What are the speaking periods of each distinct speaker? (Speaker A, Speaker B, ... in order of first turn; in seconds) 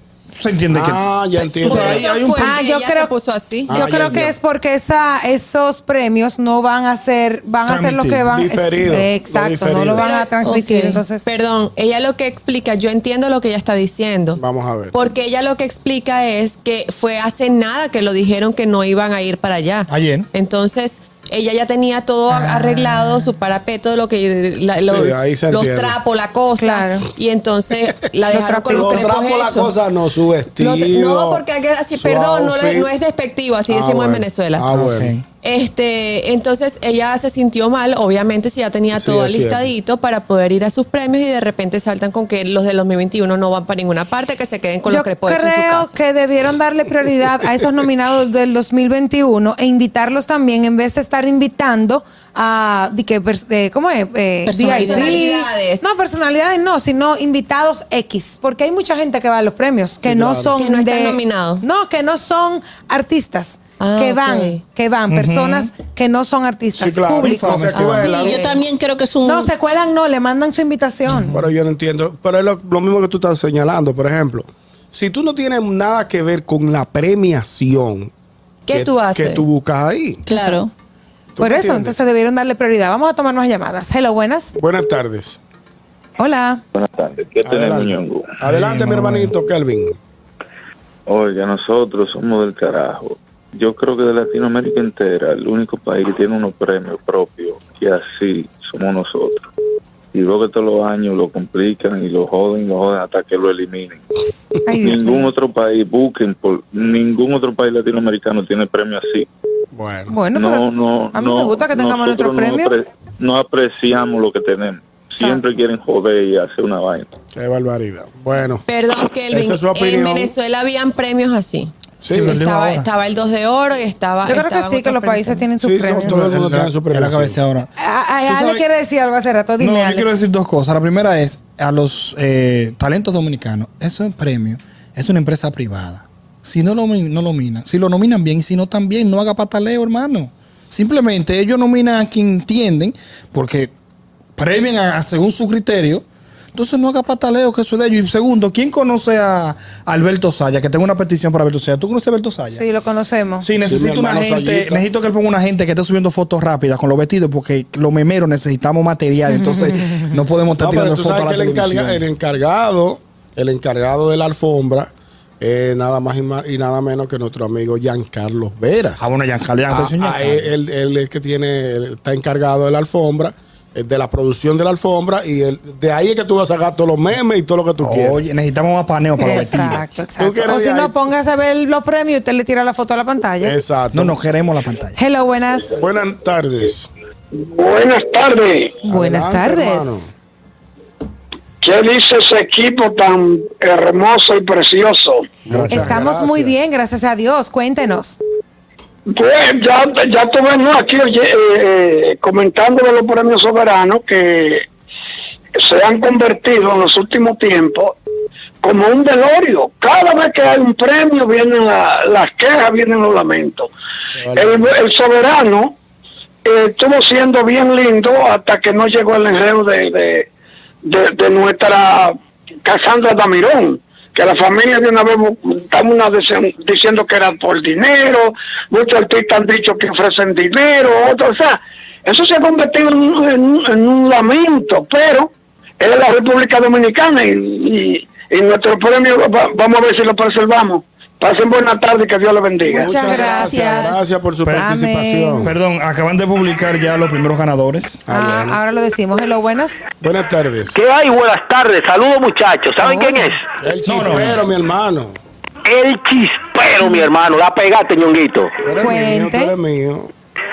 Speaker A: 0.3-2.5, 7.6-8.2, 19.9-20.3, 34.6-35.2, 65.1-65.7, 67.1-68.2, 71.1-71.5, 88.4-89.3, 122.1-122.9, 126.0-127.7, 128.2-128.6, 129.6-143.7, 144.4-152.6, 153.4-162.0, 169.0-170.5, 177.8-179.8, 183.9-185.0, 244.4-244.7, 245.4-248.0, 253.8-254.4
Speaker B: 0.7-2.1, 3.7-4.3, 8.3-10.1, 14.3-14.9, 24.8-26.0, 28.7-32.9, 33.7-35.1, 38.9-39.7, 60.0-60.5, 66.7-68.5, 71.2-78.1, 78.7-80.2, 81.3-82.0, 84.5-85.4, 87.4-90.0, 109.7-110.2, 117.3-118.6, 119.3-120.3, 122.0-122.4, 125.6-127.4, 153.6-154.8, 160.6-169.1, 169.7-178.2, 179.3-181.0, 183.4-184.2, 185.7-186.9, 188.9-190.1, 195.5-196.6, 214.2-214.7, 242.8-245.5, 248.1-248.6, 250.0-250.8, 253.6-255.2, 258.6-260.1
Speaker C: 1.6-3.9, 9.9-10.3, 11.2-29.7, 30.6-34.6, 35.4-45.9, 54.7-56.0, 60.6-61.6, 63.8-64.6, 67.7-68.6, 78.7-79.4, 118.7-121.7, 122.2-125.5
Speaker D: 2.2-3.1, 3.7-11.2, 22.3-23.2, 26.6-27.0, 28.2-29.1, 44.8-67.6, 69.2-71.3, 81.4-84.5, 86.2-86.6, 104.7-105.3, 110.1-112.8, 124.2-126.2, 127.8-130.2, 152.5-153.4, 179.2-183.6, 184.9-185.8, 188.8-190.1, 195.7-198.2, 242.6-245.5, 248.1-249.8, 252.8-253.3, 258.8-259.5
Speaker E: 10.4-11.0, 54.4-55.0, 68.0-69.5, 80.2-80.7
Speaker F: 86.7-88.4, 91.1-99.5, 100.1-104.0, 104.8-109.3, 110.3-117.1
Speaker G: 187.3-188.8, 191.6-195.2, 199.1-204.6, 205.6-207.9, 208.6-213.7, 214.3-215.7, 216.4-220.3, 220.8-243.3
Speaker H: 250.7-253.4, 255.6-258.5